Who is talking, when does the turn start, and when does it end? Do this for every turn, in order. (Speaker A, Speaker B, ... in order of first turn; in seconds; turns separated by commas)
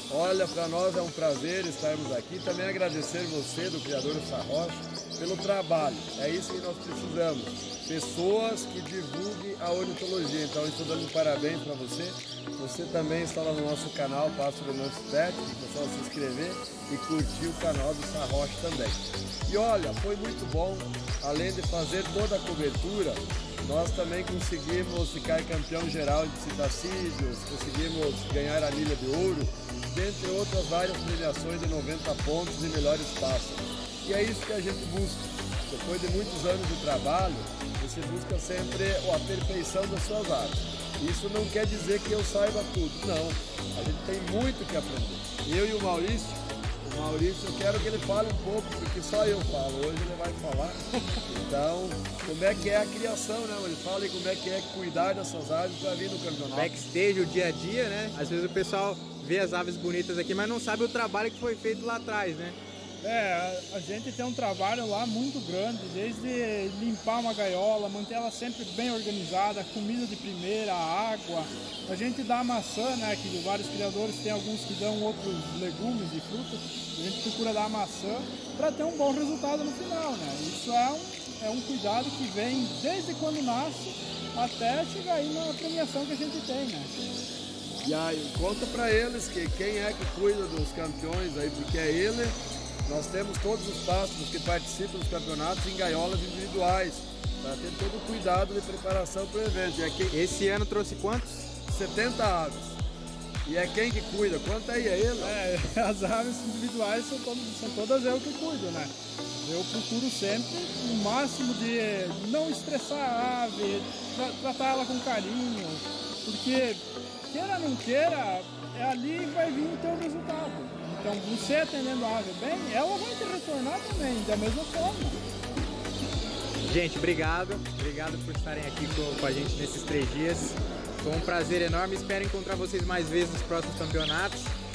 Speaker A: 0.1-56.7, Speaker B: 56.5-62.6, Speaker C: 63.0-87.0, Speaker A: 87.8-100.1, Speaker B: 100.1-101.5, Speaker A: 101.7-102.8, Speaker A: 103.4-105.4, Speaker C: 105.2-125.2, Speaker B: 126.6-134.5